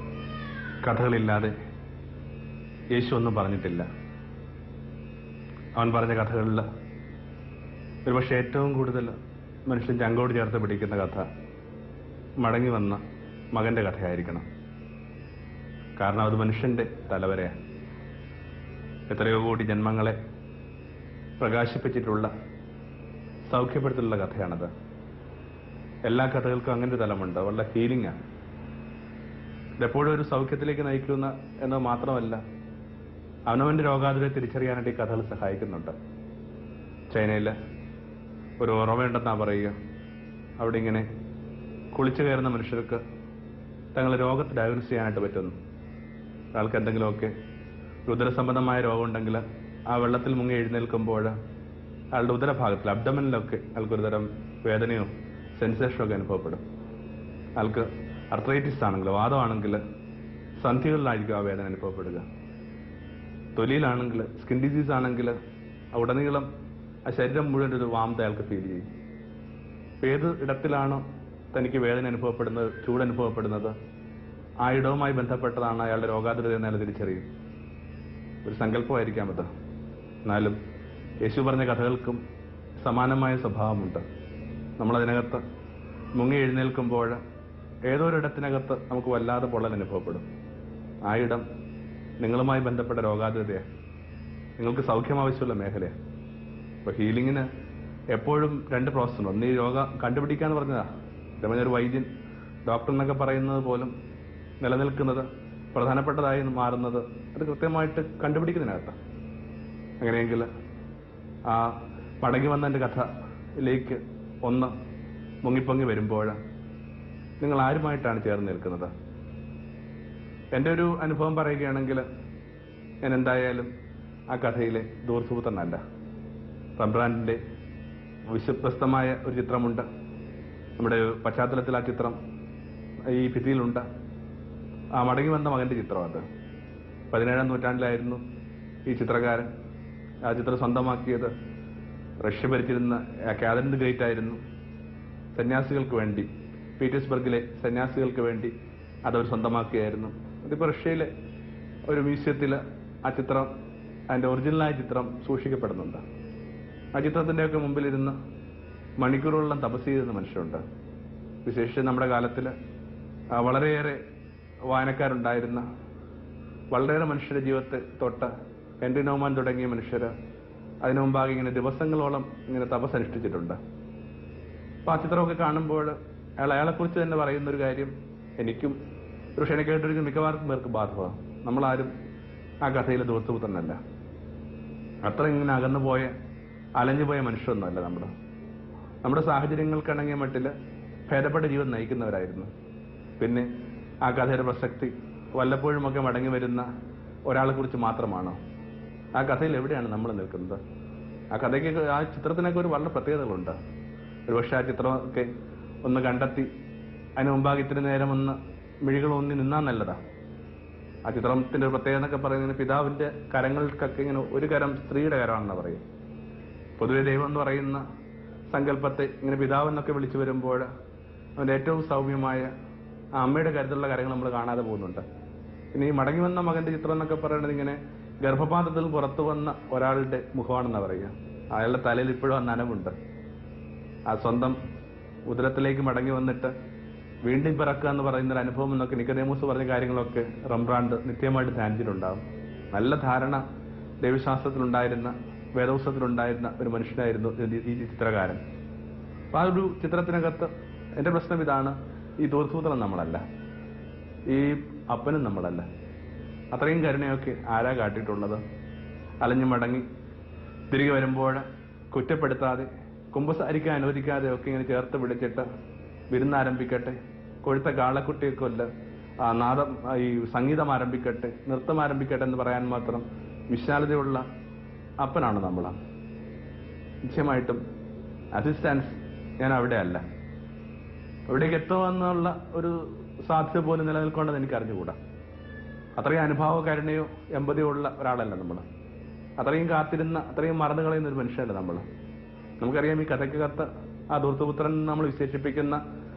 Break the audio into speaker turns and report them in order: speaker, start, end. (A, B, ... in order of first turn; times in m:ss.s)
0:00.8-0:01.5 A
0:02.9-0:03.9 A
0:05.8-0:06.6 A
0:08.1-0:09.1 A
0:09.7-0:11.2 A
0:12.4-0:13.0 A
0:13.5-0:14.4 A
0:16.0-0:17.5 A
0:19.1-0:20.2 A
0:21.4-0:22.3 A
0:23.5-0:24.7 A
0:26.1-0:28.2 A
0:29.8-0:32.4 A
0:33.5-0:35.9 A
0:37.1-0:37.5 A
0:38.6-0:39.8 A
0:40.6-0:41.1 A
0:41.9-0:43.0 A
0:44.0-0:45.6 A
0:46.6-0:47.3 A
0:48.1-0:51.3 A
0:52.1-0:56.6 A
0:57.6-0:59.8 A
1:00.6-1:02.2 A
1:03.6-1:05.3 A
1:05.9-1:06.5 A
1:07.1-1:08.8 A
1:10.0-1:11.0 A
1:11.5-1:13.7 A
1:14.6-1:17.3 A
1:18.4-1:19.5 A
1:20.2-1:20.6 A
1:21.2-1:22.2 A
1:22.8-1:24.0 A
1:24.8-1:25.4 A
1:26.2-1:27.2 A
1:27.9-1:30.2 A
1:31.1-1:31.4 A
1:32.2-1:33.6 A
1:34.6-1:35.9 A
1:36.8-1:37.5 A
1:38.1-1:42.1 A
1:42.7-1:43.9 A
1:44.6-1:49.0 A
1:50.0-1:50.5 A
1:51.5-1:53.1 A
1:53.6-1:54.7 A
1:55.4-1:56.4 A
1:57.4-1:58.9 A
2:00.5-2:02.0 A
2:03.0-2:03.7 A
2:04.3-2:05.8 A
2:06.8-2:07.4 A
2:08.3-2:09.9 A
2:10.8-2:12.2 A
2:13.1-2:13.8 A
2:15.0-2:16.2 A
2:17.1-2:18.2 A
2:18.9-2:19.5 A
2:20.2-2:21.3 A
2:22.2-2:24.4 A
2:25.3-2:26.3 A
2:26.8-2:28.5 A
2:29.1-2:31.1 A
2:31.9-2:33.5 A
2:34.1-2:36.0 A
2:36.9-2:38.1 A
2:39.0-2:40.6 A
2:41.4-2:42.5 A
2:43.3-2:44.0 A
2:44.7-2:45.6 A
2:46.7-2:50.1 A
2:50.8-2:53.6 A
2:54.9-2:58.8 A
2:59.4-3:01.9 A
3:02.6-3:03.8 A
3:05.0-3:06.1 A
3:06.8-3:08.1 A
3:09.0-3:10.5 A
3:11.1-3:12.5 A
3:13.2-3:13.5 A
3:14.0-3:16.7 A
3:17.3-3:18.4 A
3:19.2-3:20.6 A
3:21.3-3:23.6 A
3:24.3-3:25.3 A
3:25.8-3:26.5 A
3:27.2-3:30.0 A
3:31.0-3:35.8 A
3:36.8-3:37.8 A
3:38.5-3:40.7 A
3:41.4-3:42.5 A
3:43.2-3:45.0 A
3:45.7-3:52.9 A
3:54.1-3:54.6 A
3:55.3-3:56.5 A
3:57.3-4:02.2 A
4:02.7-4:03.4 A
4:04.0-4:08.4 A
4:09.3-4:13.2 A
4:14.3-4:15.7 A
4:16.5-4:18.4 A
4:19.2-4:19.8 A
4:20.7-4:25.4 A
4:26.1-4:28.7 A
4:29.2-4:34.2 A
4:35.0-4:35.8 A
4:37.0-4:37.6 A
4:38.3-4:40.0 A
4:41.3-4:45.0 A
4:46.0-4:48.6 A
4:49.4-4:51.8 A
4:52.6-4:55.8 A